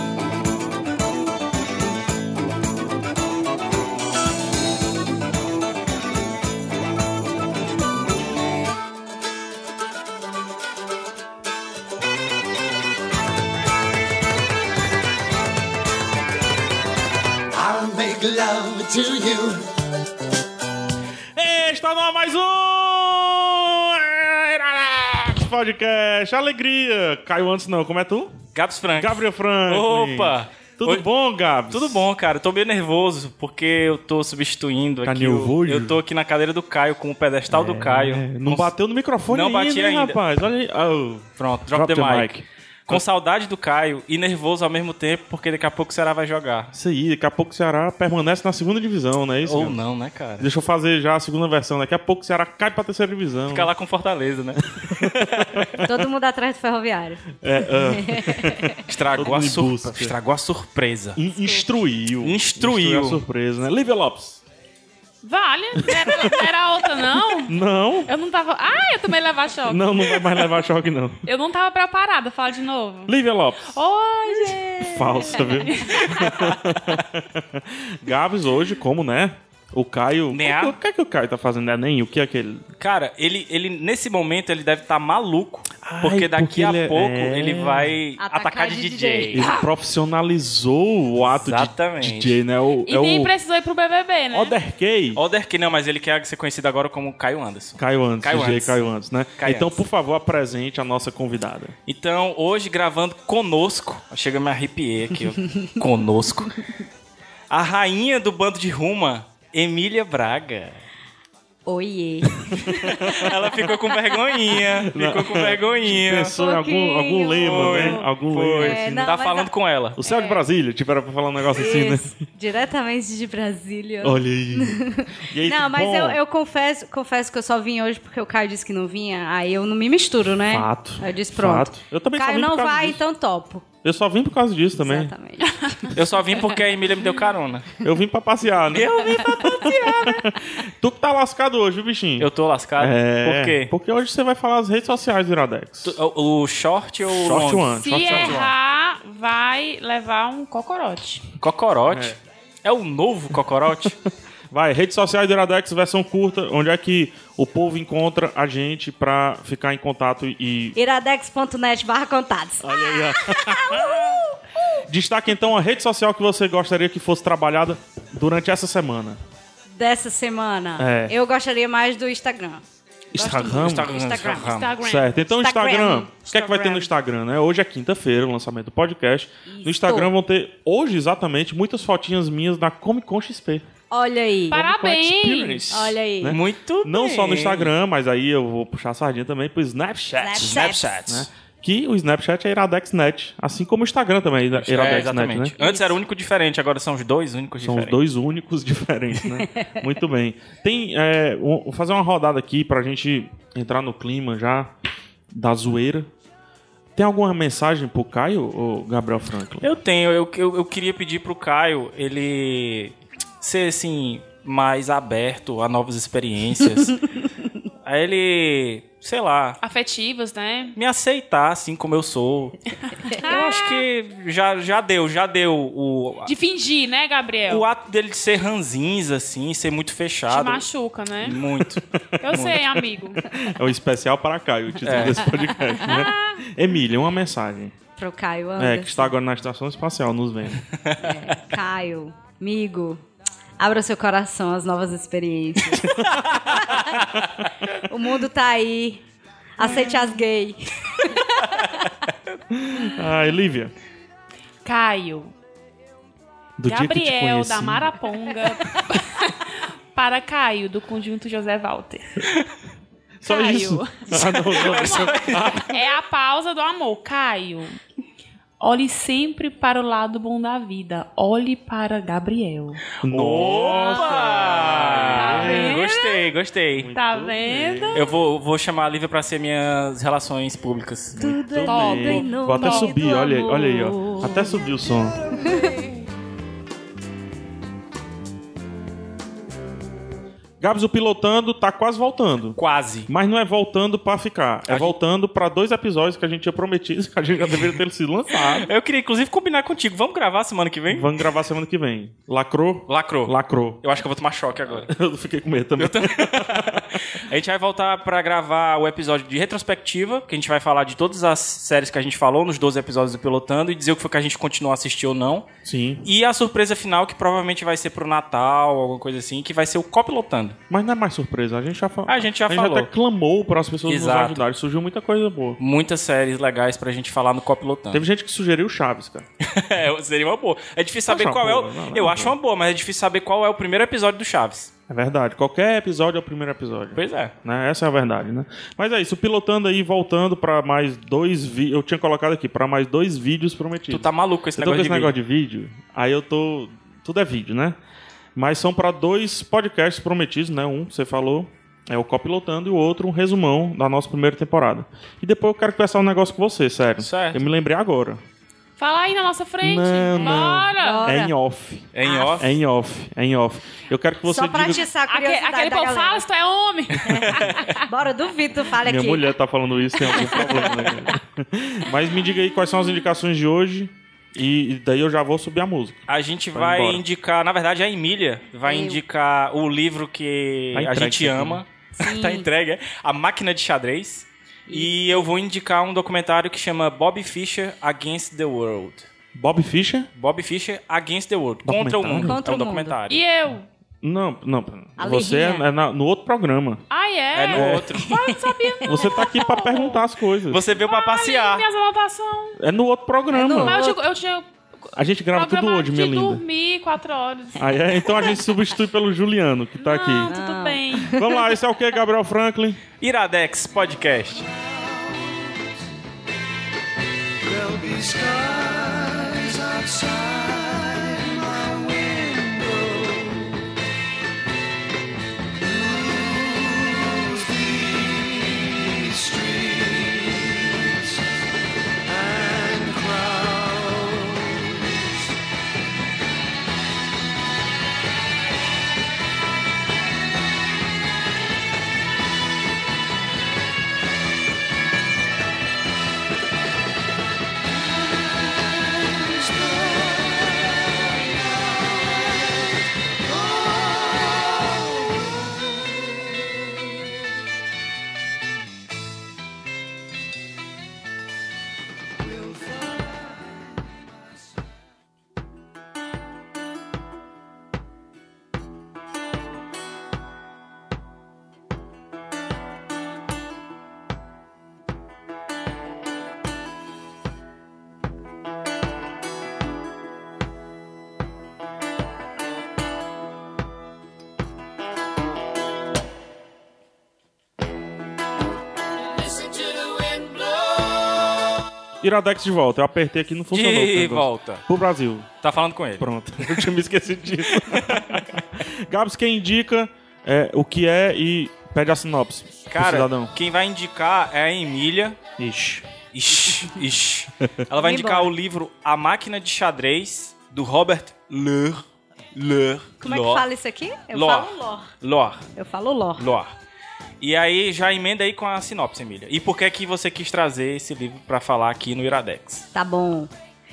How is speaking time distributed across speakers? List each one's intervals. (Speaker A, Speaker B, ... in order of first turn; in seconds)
Speaker A: 17.5-19.7, 414.6-415.5, 417.4-423.6, 425.6-431.2, 432.1-435.2, 449.2-450.5, 453.6-454.6, 489.3-490.9
Speaker B: 21.4-28.4, 29.0-32.0, 35.0-36.0, 37.5-43.0, 46.7-49.8, 50.4-53.7, 54.8-56.0, 57.4-60.1, 61.2-64.4, 65.9-66.5, 67.4-68.1, 69.7-71.3, 73.1-73.8, 74.8-82.6, 85.8-88.0, 89.3-93.3, 94.3-95.2, 97.8-101.7, 113.0-113.4, 114.8-119.2, 120.0-122.2, 124.0-126.2, 130.5-133.0, 133.8-135.1, 137.8-146.0, 147.1-148.5, 151.9-152.2, 154.5-160.8, 162.6-164.2, 164.9-169.2, 170.8-171.2, 173.1-173.9, 174.8-183.6, 184.5-195.5, 197.6-204.7, 205.3-206.1, 207.0-209.7, 233.3-237.7, 238.6-240.6, 245.8-246.3, 252.5-253.7, 256.6-257.9, 263.2-265.8, 273.0-275.8, 276.7-278.0, 281.2-285.2, 290.6-298.7, 300.9-303.8, 304.8-307.0, 315.6-316.1, 320.7-325.6, 327.9-329.2, 331.1-332.4, 334.9-347.8, 348.4-358.2, 359.6-364.9, 368.7-377.0, 380.7-381.6, 389.4-390.1, 391.6-392.4, 394.0-396.8, 397.5-397.9, 398.9-400.6, 402.6-403.8, 404.9-406.4, 407.6-410.4, 411.1-412.8, 492.0-495.3, 496.0-503.3, 505.4-505.9
Speaker C: 28.6-31.1, 31.7-38.7, 39.3-40.2, 41.4-46.7, 49.4-50.5, 53.5-55.6, 58.9-61.2, 62.2-63.2, 76.1-76.5, 80.3-80.8, 82.8-89.5, 91.3-92.4, 95.2-98.8, 99.4-99.8, 101.9-106.6, 107.5-110.8, 112.6-116.4, 117.4-120.0, 135.9-137.8, 138.7-140.0, 142.2-143.7, 145.8-148.5, 151.4-154.0, 173.6-174.8, 186.3-187.7, 190.4-191.3, 194.5-198.0, 209.6-217.0, 217.8-219.6, 220.8-222.6, 223.1-226.3, 227.5-230.7, 231.2-232.8, 234.8-235.2, 246.3-247.2, 264.1-265.7, 273.0-276.9, 277.9-281.2, 292.6-293.1, 294.7-294.9, 297.5-297.8, 298.4-301.2, 302.9-304.9, 305.8-315.5, 316.0-320.6, 322.1-322.9, 323.9-324.4, 325.6-328.0, 329.4-334.7, 337.0-337.3, 343.9-345.1, 357.0-357.4, 361.9-362.6, 376.1-389.1, 390.2-393.2, 397.3-398.2, 400.5-401.7, 413.0-414.5, 493.5-494.6, 495.4-496.1, 497.7-498.2, 502.7-505.2, 506.1-511.8, 512.4-513.5, 514.1-515.5, 516.2-516.5, 517.2-522.7
Speaker D: 55.8-57.2, 57.9-58.7, 88.2-89.6, 111.7-113.3, 116.3-119.5, 120.1-120.4, 121.6-133.7, 134.8-135.9, 160.8-164.4, 169.8-172.6, 173.1-174.7, 175.3-176.9, 179.5-180.1, 183.9-184.6, 185.7-186.4, 190.2-190.9, 195.6-196.0, 199.4-199.8, 238.0-239.1, 241.0-243.0, 243.6-245.9, 246.5-246.8, 247.8-249.0, 249.6-251.8, 281.2-284.6, 285.3-285.8, 360.8-361.4, 362.0-362.4, 364.2-366.2, 367.1-369.3, 370.3-370.6, 378.7-379.0, 382.0-382.5, 384.7-385.2, 392.3-392.9, 395.0-395.7, 398.1-399.2, 403.3-404.0, 410.3-411.4, 507.8-508.3, 513.0-514.9, 515.6-516.3, 522.7-523.3
Speaker E: 65.2-70.3, 71.3-73.2, 73.7-76.3, 92.9-94.5, 147.8-151.2, 174.3-175.1, 184.5-185.6, 219.6-220.8, 222.9-223.8, 226.2-227.7, 230.3-231.4, 232.2-233.2, 249.8-250.1, 254.6-255.3, 256.7-262.3, 263.3-267.8, 268.6-272.8, 273.8-274.2, 275.2-276.3, 276.9-278.0, 281.7-282.9, 358.8-361.0, 365.1-367.8, 393.1-393.7, 396.9-400.0, 400.7-402.6, 403.6-404.5, 405.3-408.3, 409.8-411.2